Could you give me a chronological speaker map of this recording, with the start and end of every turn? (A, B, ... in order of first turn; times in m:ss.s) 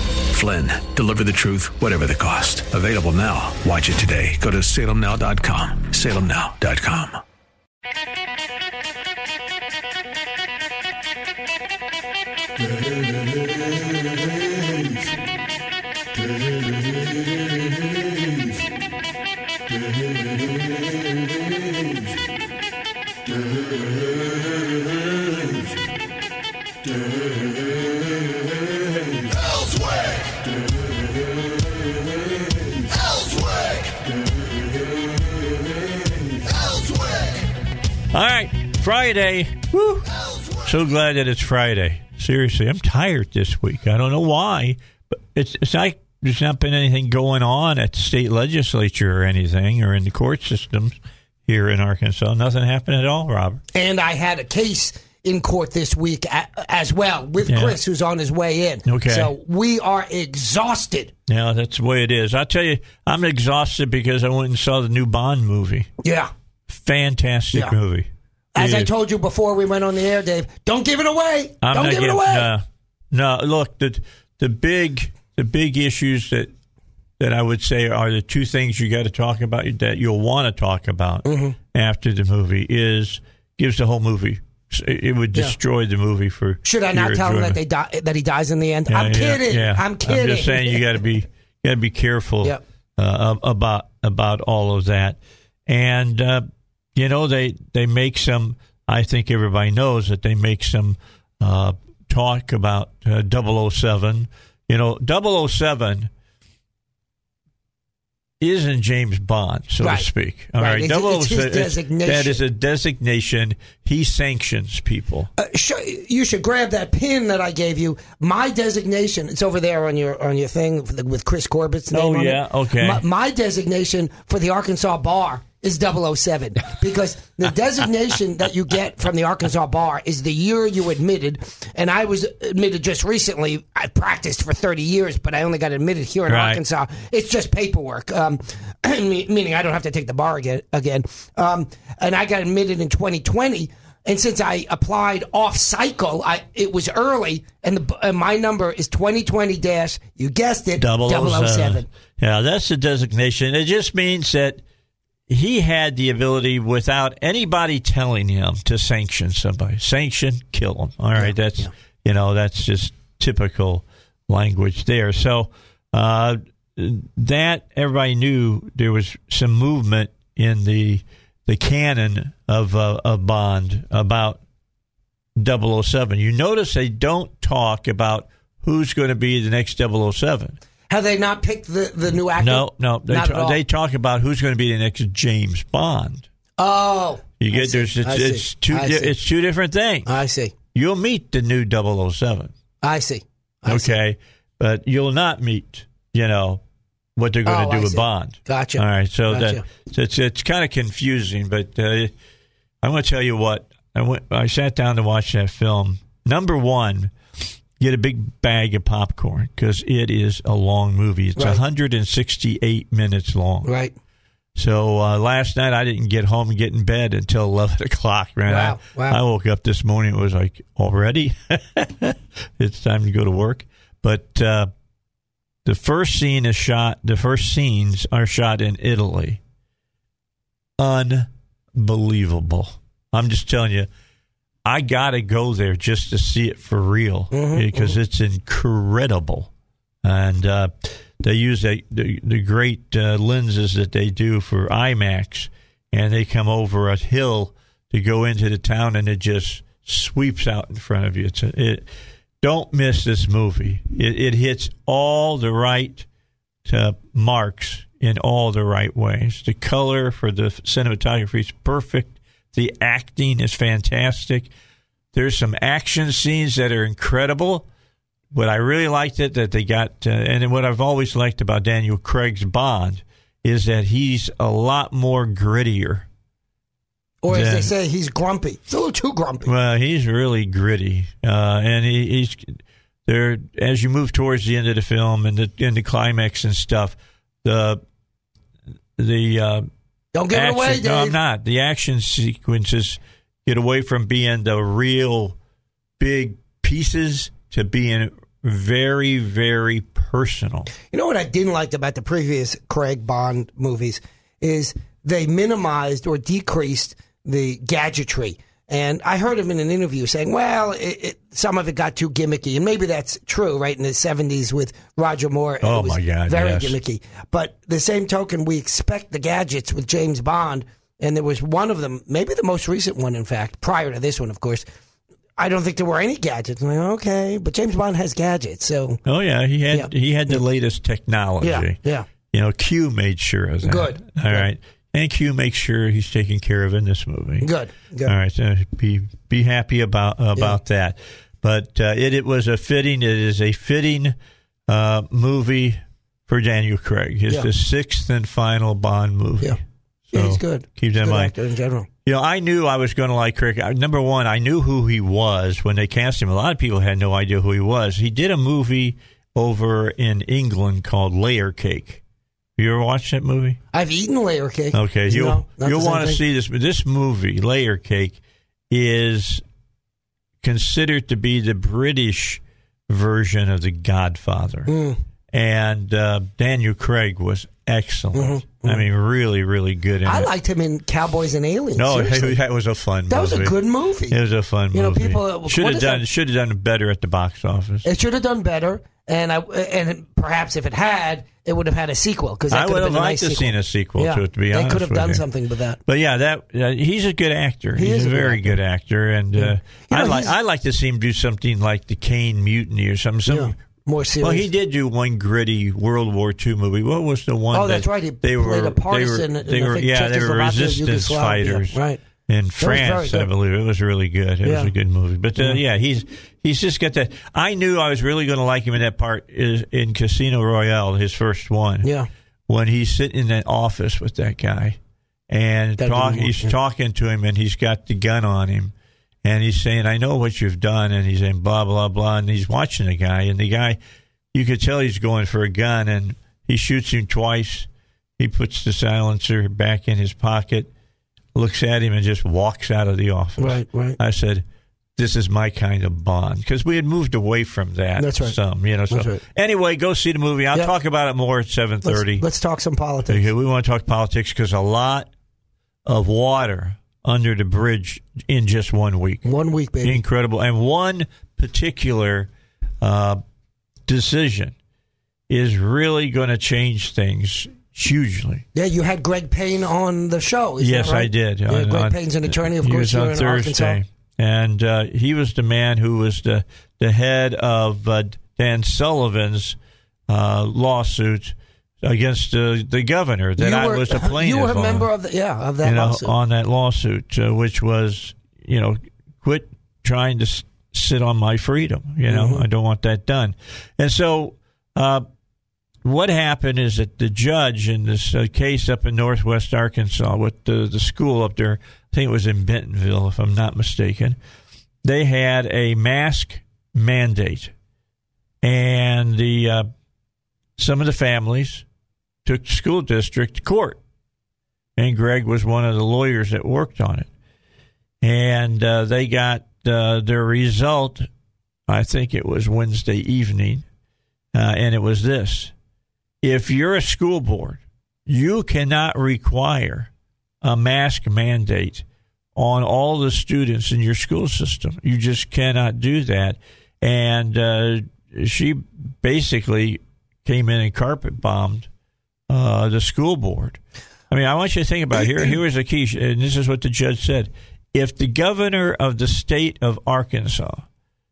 0:00.2-0:07.2 A
0:38.1-0:51.0 B
0:51.5-0:53.6 B
0:53.7-1:01.1 C
0:57.4-0:57.8 B
0:58.9-0:59.3 B
1:01.3-1:05.9 B
1:06.0-1:06.3 C
1:06.7-1:08.9 B
1:08.6-1:12.5 C
1:11.6-1:16.5 B
1:17.2-1:27.6 B
1:21.2-1:21.5 C
1:26.6-1:30.8 C
1:28.9-1:46.1 B
1:48.4-1:55.3 B
1:49.8-1:50.1 C
1:50.6-1:52.4 C
1:55.4-2:31.8 C
2:01.9-2:03.0 B
2:16.3-2:16.6 B
2:30.8-2:34.6 B
2:35.3-2:54.4 B
2:41.2-2:41.7 C
2:55.4-3:00.6 B
3:00.9-3:03.6 C
3:02.4-3:06.3 B
3:06.6-3:09.1 C
3:07.4-3:10.1 B
3:10.0-3:10.5 C
3:10.7-3:12.5 B
3:12.8-3:13.9 C
3:13.6-3:16.6 B
3:17.2-3:22.1 B
3:17.4-3:19.6 C
3:22.8-3:27.1 B
3:27.8-3:33.7 B
3:33.6-3:33.9 C
3:34.6-3:44.7 B
3:38.5-3:39.2 C
3:45.6-3:49.4 B
3:50.8-3:53.9 B
3:54.6-3:59.5 B
3:57.3-3:58.0 C
4:00.0-4:11.8 B
4:12.4-4:16.0 B
4:16.6-4:24.5 B
4:25.1-4:27.7 B
4:28.3-4:36.0 B
4:37.2-4:39.5 C
4:37.3-4:37.7 B
4:39.4-4:47.8 B
4:49.0-4:49.7 B
4:50.1-4:51.2 C
4:50.3-4:55.3 B
4:56.0-5:00.7 B
5:00.9-5:24.6 C
5:15.6-5:16.8 B
5:25.4-5:29.0 C
5:29.0-5:31.8 B
5:29.7-5:30.4 C
5:31.4-5:32.1 C
5:32.3-5:37.5 B
5:33.6-5:34.5 C
5:37.4-5:38.1 C
5:38.0-5:44.1 B
5:44.7-5:49.6 B
5:50.1-5:51.3 B
5:50.1-5:51.9 C
5:52.0-6:02.0 B
6:02.6-6:03.6 B
6:03.7-6:06.2 C
6:04.7-6:08.2 B
6:08.7-6:09.4 B
6:10.4-6:14.7 B
6:14.7-6:15.0 C
6:15.3-6:20.3 B
6:18.1-6:18.8 C
6:20.0-6:22.3 C
6:21.8-6:23.5 B
6:23.1-6:24.2 C
6:24.1-6:27.8 B
6:24.7-6:26.0 C
6:27.8-6:35.8 C
6:32.5-6:35.2 B
6:35.9-6:43.5 B
6:37.8-6:38.6 C
6:39.3-6:40.3 C
6:43.2-6:44.4 C
6:44.2-7:01.9 B
6:47.5-6:52.0 C
6:52.6-6:53.3 C
6:54.4-6:54.7 C
7:01.8-7:02.1 C
7:02.5-7:04.8 B
7:05.3-7:08.7 B
7:05.8-7:06.5 C
7:09.2-7:13.8 B
7:14.3-7:20.7 B
7:21.3-7:24.4 B
7:23.4-7:24.0 C
7:25.0-7:32.2 B
7:28.0-7:28.4 C
7:28.9-7:29.2 C
7:31.8-7:33.2 C
7:33.1-7:35.1 B
7:35.8-7:39.3 B
7:39.2-7:40.0 C
7:39.8-7:42.3 B
7:42.8-7:43.2 B
7:43.9-7:44.5 B
7:45.3-7:48.4 B
7:48.5-7:53.8 C
7:50.6-7:59.6 B
8:00.1-8:04.9 B
8:03.4-8:06.1 C
8:05.6-8:15.0 B
8:12.1-8:12.4 C
8:15.8-8:24.2 B
8:24.8-8:27.5 B
8:28.4-8:29.7 B
8:30.6-8:31.6 B
8:32.2-8:33.8 B
8:34.8-8:37.1 B
8:38.0-8:41.1 B
8:41.7-8:43.6 B
8:44.3-8:45.5 B
8:46.2-8:49.9 B
8:50.4-8:51.8 B
8:52.3-9:01.7 B
9:02.3-9:03.6 B
9:04.1-9:10.6 B